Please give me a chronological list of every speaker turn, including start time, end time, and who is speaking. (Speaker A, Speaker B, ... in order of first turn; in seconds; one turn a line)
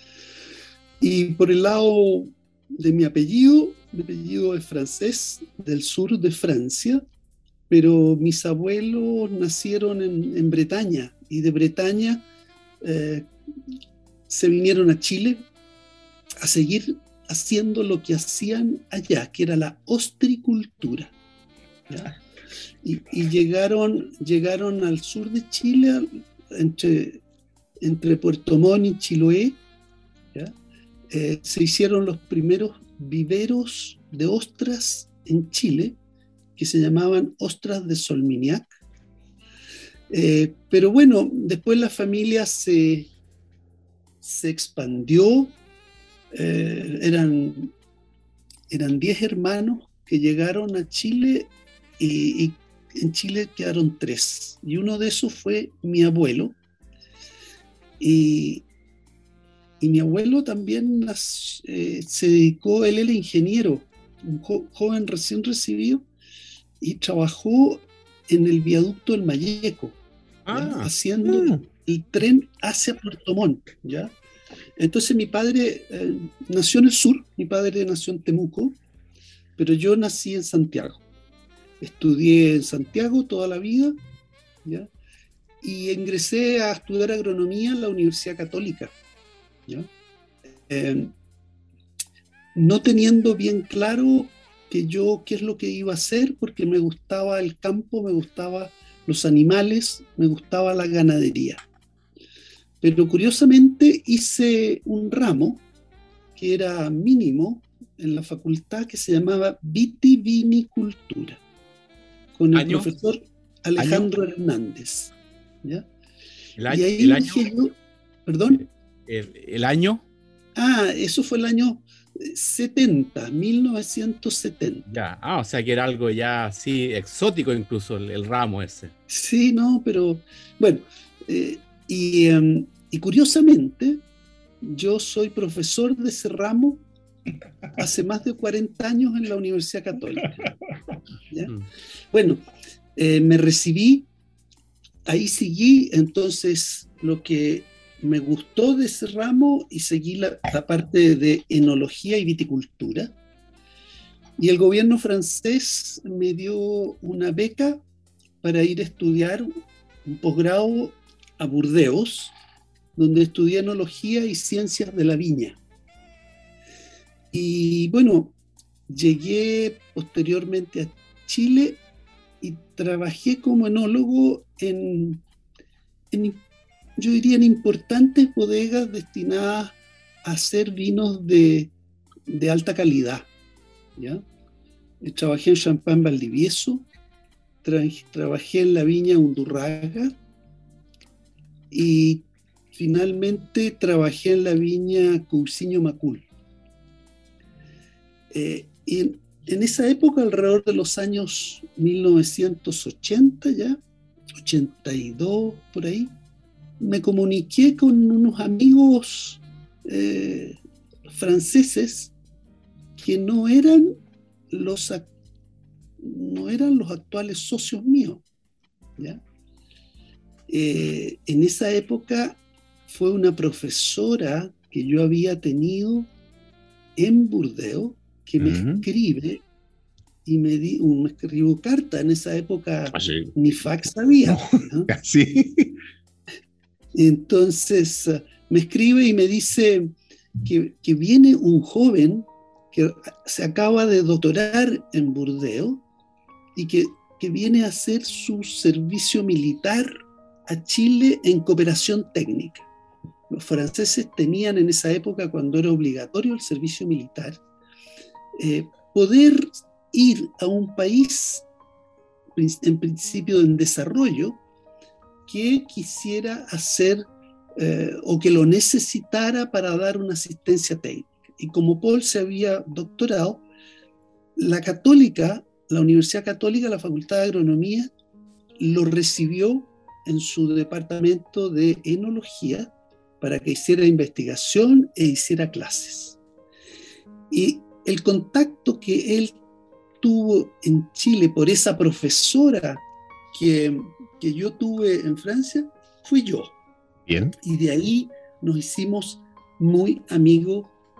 Speaker A: 1.0-7.0
Speaker A: 7.7-12.2
Speaker A: 12.8-13.3
Speaker A: 14.3-15.4
Speaker A: 16.4-21.1
Speaker A: 21.9-22.1
Speaker A: 22.8-27.2
Speaker A: 27.8-29.6
Speaker A: 31.1-36.0
Speaker A: 36.5-38.7
Speaker A: 40.1-43.1
Speaker A: 44.2-45.5
Speaker A: 46.3-47.7
Speaker A: 48.7-56.6
Speaker A: 58.0-58.6
Speaker A: 59.8-66.0
Speaker A: 66.8-70.0
Speaker B: 70.5-70.9
Speaker A: 70.5-74.1
Speaker C: 71.3-71.6
Speaker A: 74.8-78.8
Speaker A: 79.6-81.0
Speaker A: 81.8-84.0
Speaker A: 84.6-84.9
Speaker A: 85.6-88.9
Speaker A: 90.7-91.1
Speaker A: 92.5-101.6
Speaker A: 102.8-105.6
Speaker A: 106.3-111.4
Speaker A: 112.3-115.1
Speaker B: 112.5-112.9
Speaker B: 113.8-114.0
Speaker B: 116.6-117.5
Speaker A: 116.7-117.7
Speaker A: 118.2-118.6
Speaker B: 119.1-120.0
Speaker A: 120.5-124.8
Speaker B: 124.9-128.9
Speaker A: 129.1-134.0
Speaker A: 134.6-136.8
Speaker A: 137.7-140.4
Speaker A: 142.1-142.4
Speaker A: 142.9-144.1
Speaker A: 145.1-153.1
Speaker A: 154.4-157.8
Speaker A: 158.4-159.5
Speaker A: 160.0-162.3
Speaker A: 162.9-165.6
Speaker A: 167.3-168.3
Speaker A: 168.9-171.8
Speaker A: 172.4-175.2
Speaker A: 176.1-176.4
Speaker A: 177.0-181.7
Speaker A: 182.3-183.3
Speaker A: 184.0-184.2
Speaker A: 185.0-186.8
Speaker A: 187.6-190.1
Speaker A: 191.7-196.2
Speaker A: 198.3-203.8
Speaker A: 204.4-206.1
Speaker A: 206.8-210.6
Speaker A: 211.1-212.1
Speaker A: 213.0-213.9
Speaker A: 214.5-215.1
Speaker A: 216.0-218.2
Speaker A: 220.5-226.1
Speaker A: 227.0-229.4
Speaker C: 228.4-228.8
Speaker A: 230.2-234.9
Speaker C: 232.9-233.3
Speaker C: 234.3-235.8
Speaker A: 236.9-245.8
Speaker A: 246.6-252.7
Speaker A: 253.3-257.4
Speaker A: 258.4-261.4
Speaker A: 262.4-264.4
Speaker A: 265.3-267.1
Speaker A: 267.6-273.4
Speaker A: 274.4-277.9
Speaker A: 278.6-286.2
Speaker A: 287.3-289.4
Speaker A: 290.0-296.6
Speaker C: 297.1-297.3
Speaker A: 297.4-300.7